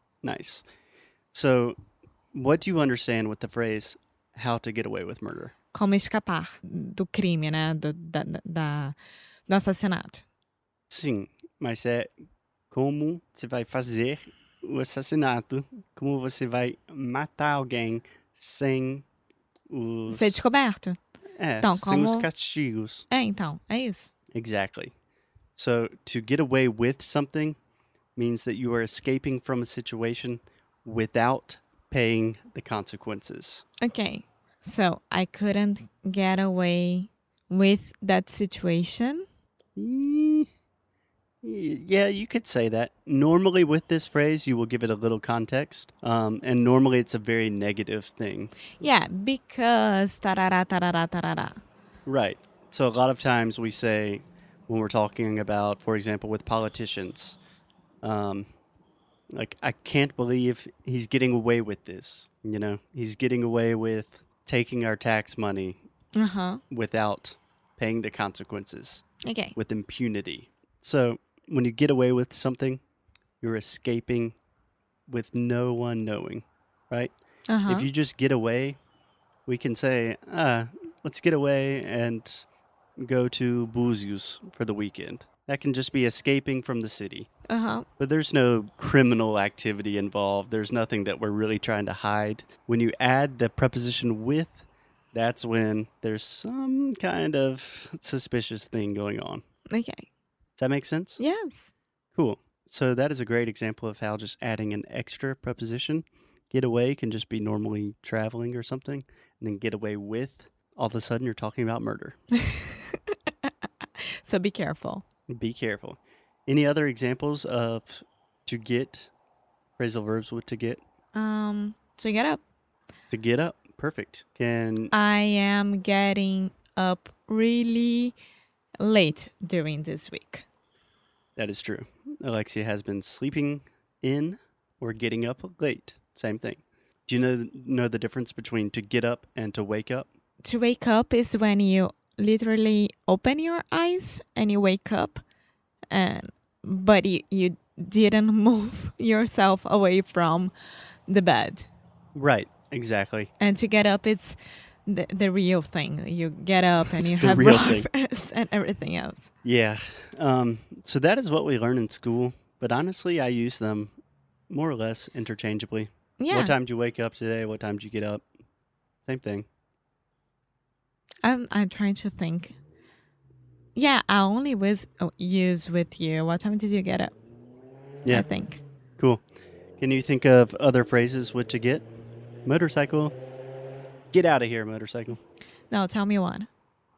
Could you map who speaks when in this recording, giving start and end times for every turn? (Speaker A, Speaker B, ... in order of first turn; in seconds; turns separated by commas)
Speaker A: 0.2-0.6, Speaker A: 1.3-1.8, Speaker A: 2.3-5.5, Speaker B: 5.7-8.9, Speaker B: 9.5-10.2, Speaker A: 10.9-12.1, Speaker A: 12.7-19.1, Speaker A: 19.7-20.4, Speaker B: 20.1-21.0, Speaker A: 21.4-23.0, Speaker B: 21.6-22.3, Speaker B: 23.1-24.1, Speaker A: 24.3-24.9, Speaker A: 25.6-27.6, Speaker A: 28.1-33.6, Speaker B: 33.8-39.2, Speaker A: 39.8-40.5, Speaker A: 41.4-48.6, Speaker B: 48.8-51.6, Speaker A: 52.0-57.4, Speaker A: 58.0-58.5, Speaker A: 59.3-65.8, Speaker B: 66.2-66.6, Speaker A: 66.7-69.0, Speaker B: 69.2-69.5, Speaker A: 69.5-72.8, Speaker A: 73.4-74.3, Speaker A: 75.1-77.1, Speaker B: 77.5-77.9, Speaker A: 77.7-78.8, Speaker A: 79.5-82.5, Speaker A: 83.0-87.3, Speaker B: 87.5-87.8, Speaker A: 88.0-99.4, Speaker B: 99.7-100.1, Speaker A: 100.6-101.2, Speaker B: 101.2-101.7, Speaker A: 102.1-112.2, Speaker B: 112.4-113.1, Speaker B: 114.2-115.0, Speaker A: 115.3-119.1, Speaker A: 119.8-120.8, Speaker B: 121.1-122.4, Speaker A: 123.1-124.9, Speaker B: 124.9-128.2, Speaker B: 128.8-130.4, Speaker A: 131.4-140.1, Speaker B: 140.4-145.2, Speaker B: 145.9-151.7, Speaker A: 152.1-153.3, Speaker B: 153.4-159.3, Speaker A: 157.0-157.9, Speaker A: 159.4-163.9, Speaker A: 164.5-168.2, Speaker B: 166.2-166.5, Speaker A: 169.1-169.5, Speaker B: 171.2-172.6, Speaker B: 173.7-177.1, Speaker B: 178.1-178.6, Speaker A: 179.8-181.9, Speaker A: 182.4-183.2, Speaker A: 184.1-185.2, Speaker B: 185.7-186.5